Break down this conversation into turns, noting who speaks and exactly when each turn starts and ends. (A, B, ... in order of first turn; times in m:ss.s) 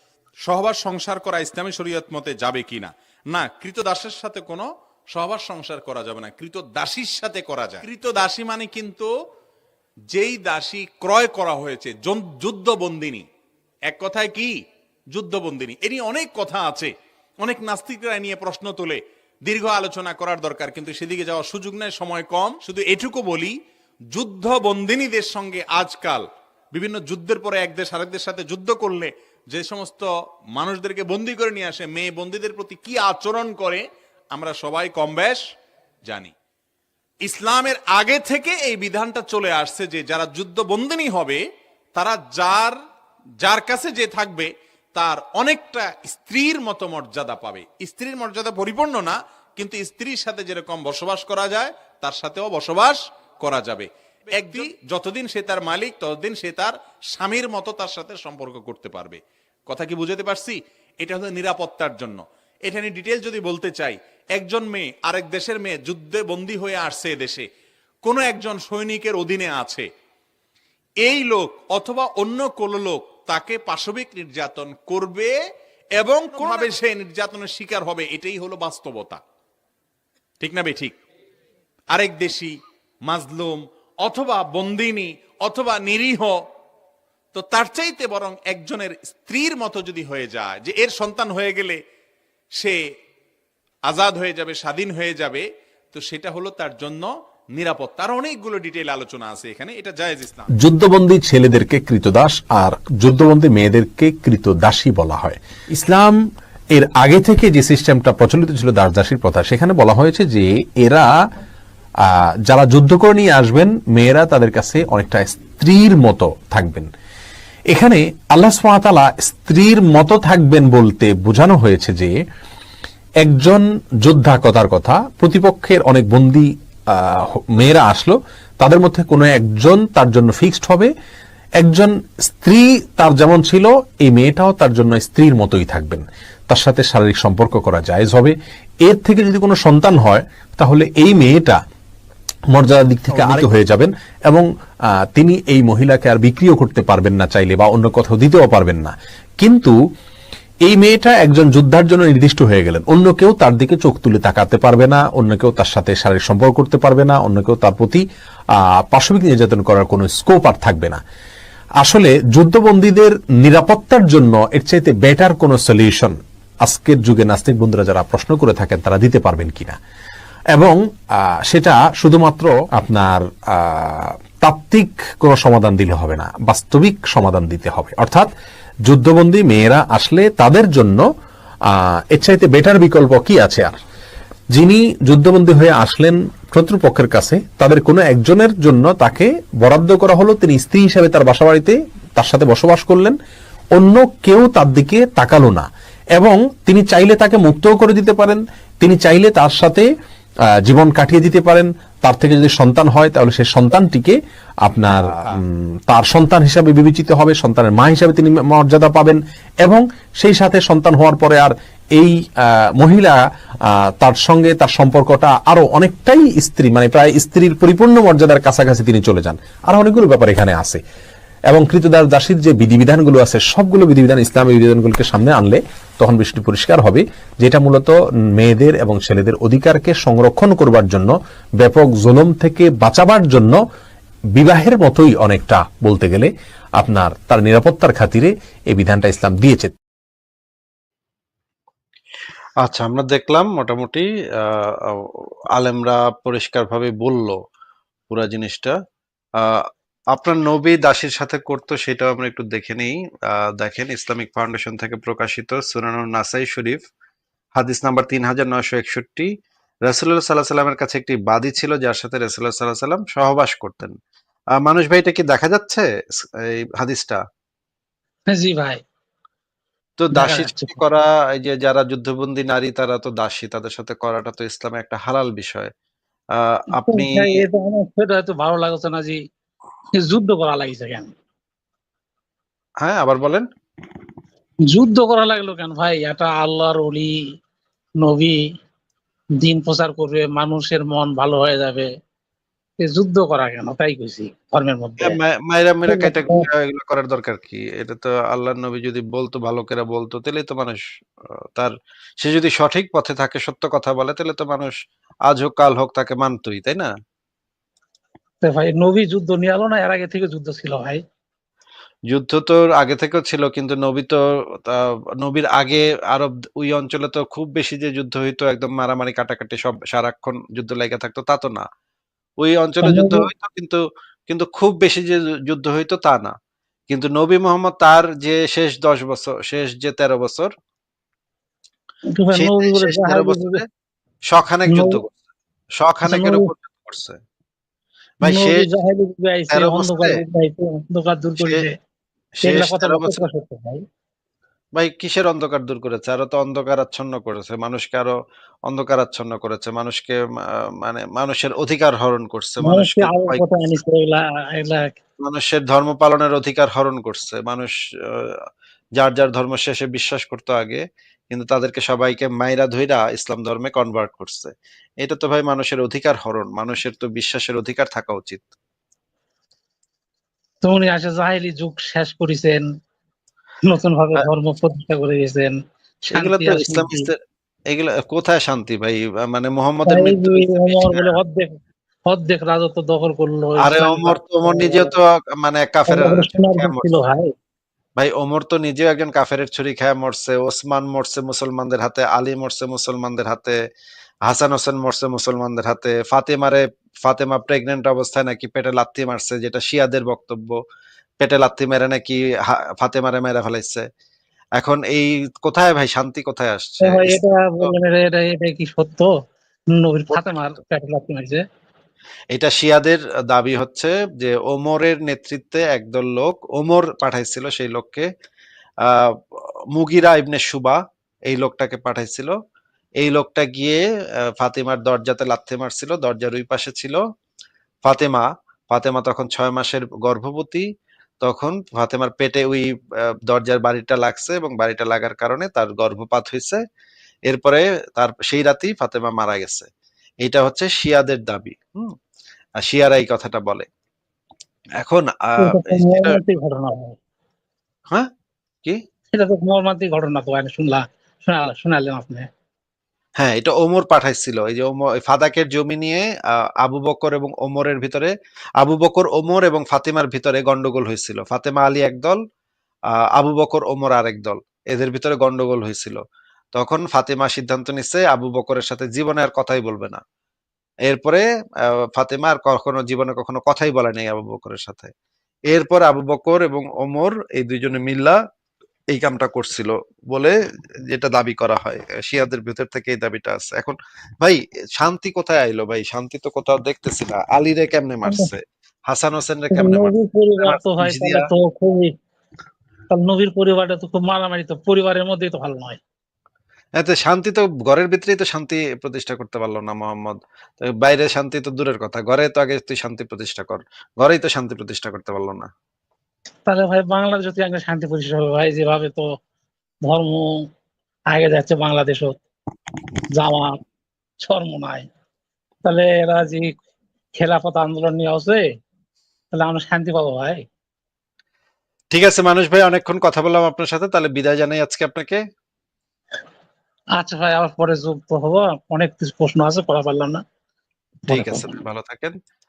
0:00.4-0:09.1 A
0:10.1-0:13.3 A
0:13.9-0:14.6 A
0:15.1-0:23.6 A
0:24.1-0:35.4 A
0:36.0-0:36.3 A
0:37.2-0:41.4 A
0:42.0-0:42.8 A
0:43.4-1:07.5 A
1:08.0-1:09.9 A
1:11.0-1:15.3 A
1:16.0-1:19.2 A
1:20.4-1:21.0 A
1:21.9-1:26.4 A
1:27.3-1:31.8 A
1:32.6-1:32.9 A
1:33.9-1:40.5 A
1:40.6-1:51.1 B
1:52.0-1:56.9 B
1:57.7-2:02.2 B
2:03.2-2:10.9 B
2:11.6-2:21.6 B
2:22.5-2:24.5 B
2:25.1-2:29.8 B
2:30.6-2:38.0 B
2:38.6-2:41.0 B
2:41.8-2:49.8 B
2:50.5-2:58.3 B
2:58.9-3:01.1 B
3:01.7-3:03.8 B
3:04.5-3:13.2 B
3:13.7-3:19.9 B
3:20.6-3:40.8 B
3:41.5-3:53.6 B
3:54.4-3:59.8 B
4:02.6-4:07.4 C
4:08.1-4:08.8 C
4:09.4-4:16.8 C
4:17.6-4:19.3 C
4:19.9-4:24.0 C
4:24.6-4:25.9 C
4:26.4-4:27.2 C
4:28.3-4:28.8 D
4:30.0-4:35.7 C
4:30.2-4:30.8 D
4:36.5-4:37.4 C
4:36.8-4:39.2 D
4:39.9-4:41.1 D
4:42.8-4:43.5 C
4:44.7-4:47.1 D
4:48.0-4:48.4 D
4:49.4-4:51.9 D
4:52.8-4:55.2 D
4:55.0-5:00.8 C
4:55.9-4:56.5 D
5:01.6-5:04.8 C
5:05.3-5:06.9 C
5:08.4-5:11.0 D
5:12.1-5:21.6 C
5:22.4-5:26.3 C
5:22.8-5:23.3 D
5:26.9-5:30.5 C
5:32.2-5:33.6 D
5:32.4-5:33.6 C
5:34.3-5:35.1 C
5:34.7-5:35.0 D
5:35.8-5:37.2 C
5:36.1-5:36.5 D
5:38.2-5:38.7 C
5:38.2-5:41.7 D
5:39.5-5:40.2 C
5:41.4-5:41.6 C
5:42.4-5:43.2 C
5:42.4-5:43.8 D
5:44.8-5:48.1 C
5:48.7-5:50.2 C
5:50.8-5:53.4 C
5:52.6-5:54.9 D
5:55.2-5:58.4 C
5:59.0-6:08.4 C
6:10.6-6:12.6 D
6:13.7-6:17.1 D
6:16.1-6:17.2 C
6:17.7-6:21.2 C
6:19.9-6:24.9 D
6:23.6-6:26.9 C
6:25.9-6:27.3 D
6:28.0-6:33.6 C
6:34.3-6:40.6 C
6:41.2-6:43.9 C
6:44.6-6:47.8 C
6:46.8-6:49.1 D
6:49.7-6:51.4 D
6:52.3-6:58.1 C
6:58.8-7:02.4 C
7:03.0-7:03.8 C
7:04.4-7:07.0 C
7:07.8-7:10.7 C
7:11.2-7:16.6 C
7:17.3-7:19.7 C
7:20.2-7:22.0 C
7:22.6-7:23.7 C
7:24.8-7:26.2 C
7:25.4-7:27.0 D
7:29.1-7:32.3 D
7:33.2-7:42.2 C
7:43.2-7:46.0 C
7:46.5-7:50.0 C
7:50.9-7:54.9 C
7:55.5-7:58.2 C
7:58.9-8:00.4 C
8:00.9-8:11.3 C
8:09.5-8:11.9 D
8:12.9-8:15.8 D
8:16.8-8:25.5 C
8:26.4-8:29.0 D
8:29.8-8:30.3 D
8:31.1-8:32.2 D
8:33.1-8:33.6 D
8:34.2-8:34.9 D
8:35.6-8:36.5 D
8:37.2-8:38.5 D
8:39.3-8:40.4 D
8:41.9-8:45.2 C
8:47.0-8:50.2 D
8:51.1-8:51.5 D
8:51.1-8:52.2 C